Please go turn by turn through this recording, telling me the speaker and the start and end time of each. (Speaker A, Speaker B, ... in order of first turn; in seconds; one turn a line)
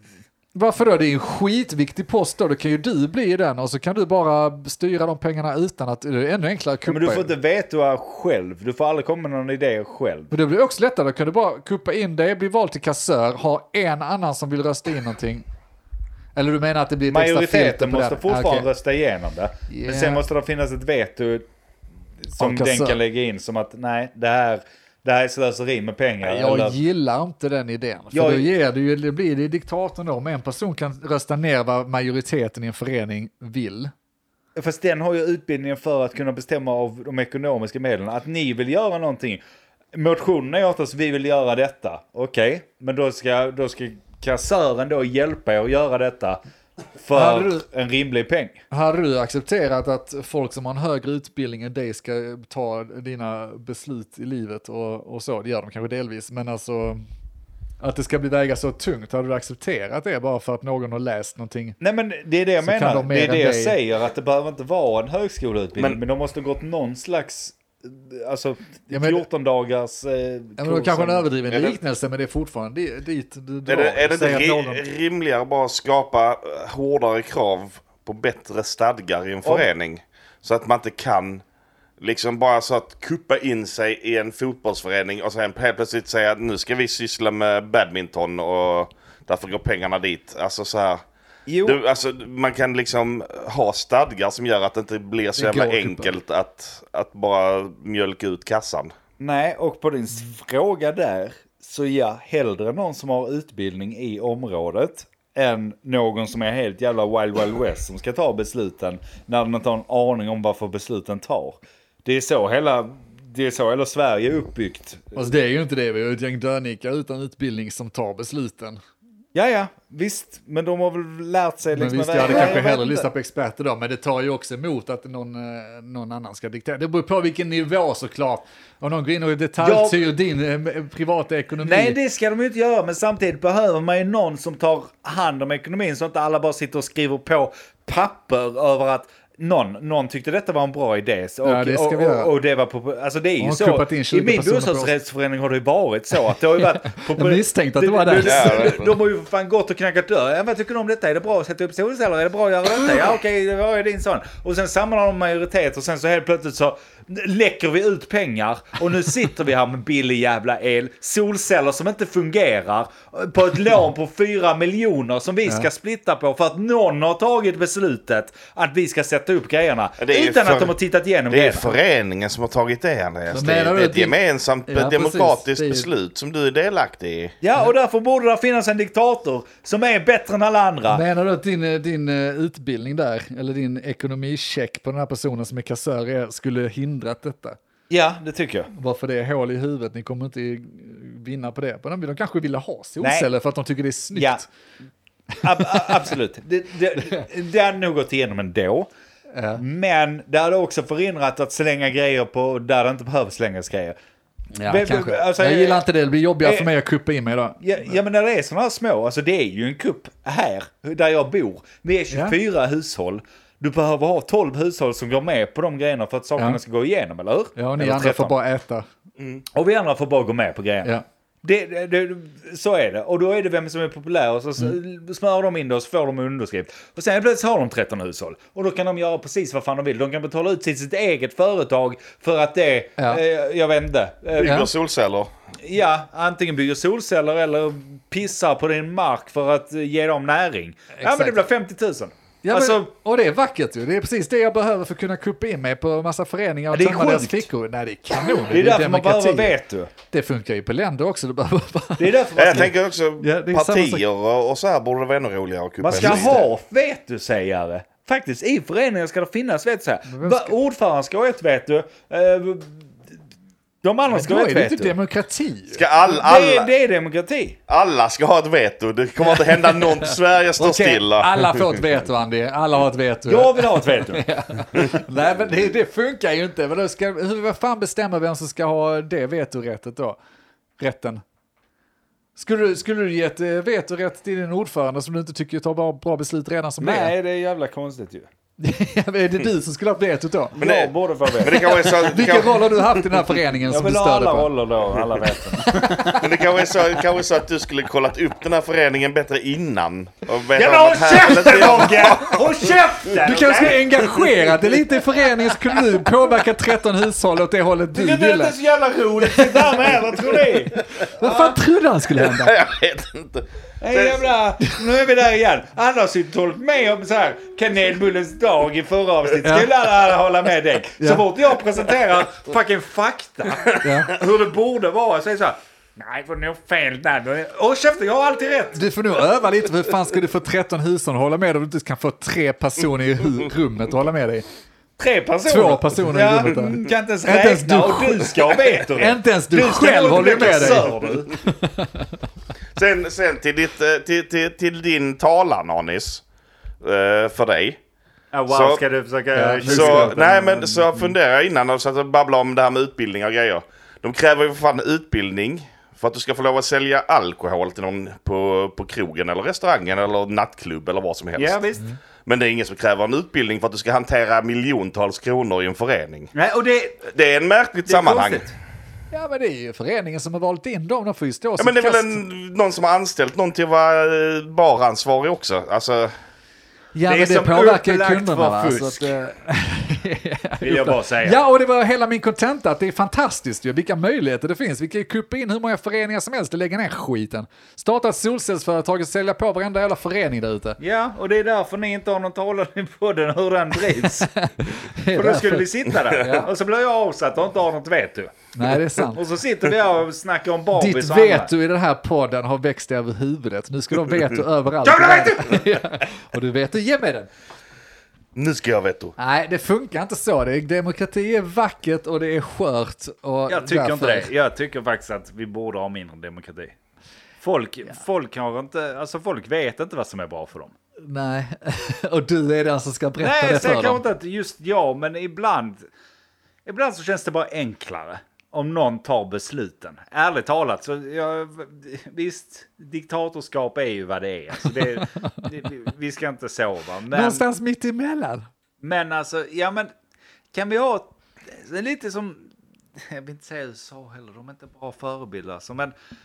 Speaker A: 0.5-7.3
Speaker B: 6.9-10.3
Speaker A: 10.3-15.4
Speaker A: 16.4-18.7
Speaker B: 17.1-21.5
Speaker A: 19.7-20.2
Speaker B: 22.3-26.8
Speaker A: 22.3-23.0
Speaker A: 26.2-33.9
Speaker B: 28.1-28.5
Speaker B: 34.6-39.4
Speaker B: 39.9-46.4
Speaker B: 47.0-48.6
Speaker A: 47.1-47.6
Speaker A: 48.7-57.0
Speaker A: 57.8-61.8
Speaker B: 61.8-71.3
Speaker A: 62.6-63.8
Speaker A: 68.9-69.2
Speaker A: 70.6-74.8
Speaker C: 71.5-71.8
Speaker C: 73.7-81.4
Speaker C: 82.0-91.0
Speaker B: 91.5-91.8
Speaker C: 91.6-98.9
Speaker A: 95.4-96.2
Speaker B: 99.2-115.1
Speaker A: 115.1-118.8
Speaker B: 119.3-123.1
Speaker A: 121.8-132.0
Speaker B: 129.6-130.0
Speaker B: 131.6-171.8
Speaker A: 141.4-142.3
Speaker A: 143.4-144.9
Speaker A: 146.8-148.8
Speaker C: 148.2-148.9
Speaker C: 170.0-170.8
Speaker C: 171.3-177.3
Speaker A: 173.3-174.2
Speaker A: 174.7-175.9
Speaker B: 177.4-181.0
Speaker A: 180.9-187.6
Speaker B: 187.9-188.7
Speaker A: 188.7-194.5
Speaker B: 193.0-193.3
Speaker B: 194.1-194.4
Speaker A: 195.3-195.8
Speaker B: 195.4-198.9
Speaker A: 199.3-199.6
Speaker B: 199.6-204.0
Speaker A: 204.6-207.6
Speaker B: 204.7-205.8
Speaker B: 206.4-206.7
Speaker B: 207.6-218.3
Speaker A: 212.1-212.4
Speaker A: 217.6-218.9
Speaker B: 219.5-220.9
Speaker B: 221.4-234.7
Speaker C: 234.4-235.3
Speaker A: 234.4-234.7
Speaker B: 235.6-242.9
Speaker A: 241.0-241.4
Speaker A: 242.4-249.6
Speaker B: 246.7-247.5
Speaker B: 248.4-249.9
Speaker A: 250.1-252.6
Speaker B: 252.0-252.8
Speaker C: 252.3-256.4
Speaker A: 253.2-254.0
Speaker B: 255.8-262.9
Speaker A: 255.9-256.4
Speaker A: 260.1-260.6
Speaker B: 263.8-264.9
Speaker A: 264.1-265.8
Speaker C: 265.7-266.7
Speaker B: 266.1-267.6
Speaker C: 267.7-271.8
Speaker A: 269.2-280.2
Speaker B: 273.3-274.3
Speaker A: 280.8-281.2
Speaker A: 282.4-287.1
Speaker B: 286.8-288.3
Speaker A: 288.6-290.6
Speaker B: 290.6-291.8
Speaker C: 290.6-293.4
Speaker A: 291.6-294.5
Speaker B: 293.7-296.2
Speaker A: 295.6-296.3
Speaker C: 296.1-302.8
Speaker B: 300.5-304.2
Speaker A: 303.2-308.6
Speaker B: 307.9-311.6
Speaker A: 309.2-309.7
Speaker A: 311.1-312.6
Speaker C: 312.2-314.3
Speaker B: 313.8-328.9
Speaker A: 319.4-319.7
Speaker A: 321.0-321.2
Speaker A: 323.8-324.1
Speaker A: 328.8-334.5
Speaker B: 335.0-341.3
Speaker A: 335.5-338.4
Speaker A: 338.9-342.2
Speaker C: 342.8-346.2
Speaker C: 346.8-347.8
Speaker B: 348.3-351.0
Speaker C: 348.5-348.8
Speaker A: 349.4-350.6
Speaker C: 349.6-361.6
Speaker B: 361.4-361.9
Speaker C: 362.3-366.3
Speaker B: 366.3-367.0
Speaker C: 367.1-368.5
Speaker B: 367.9-368.6
Speaker A: 369.1-372.2
Speaker C: 371.6-376.1
Speaker A: 376.9-390.8
Speaker B: 377.1-379.1
Speaker B: 380.6-381.4
Speaker B: 390.8-394.3
Speaker A: 394.2-396.5
Speaker B: 395.1-398.4
Speaker A: 398.5-399.2
Speaker B: 399.0-401.5
Speaker A: 400.7-407.3
Speaker B: 404.8-405.7
Speaker C: 408.4-409.2
Speaker A: 409.2-414.3
Speaker B: 413.5-416.8
Speaker B: 417.4-420.8
Speaker A: 421.0-424.0
Speaker B: 423.2-425.9
Speaker B: 426.6-437.4
Speaker A: 435.0-435.4
Speaker A: 437.1-438.5
Speaker B: 438.8-439.9
Speaker B: 440.5-445.9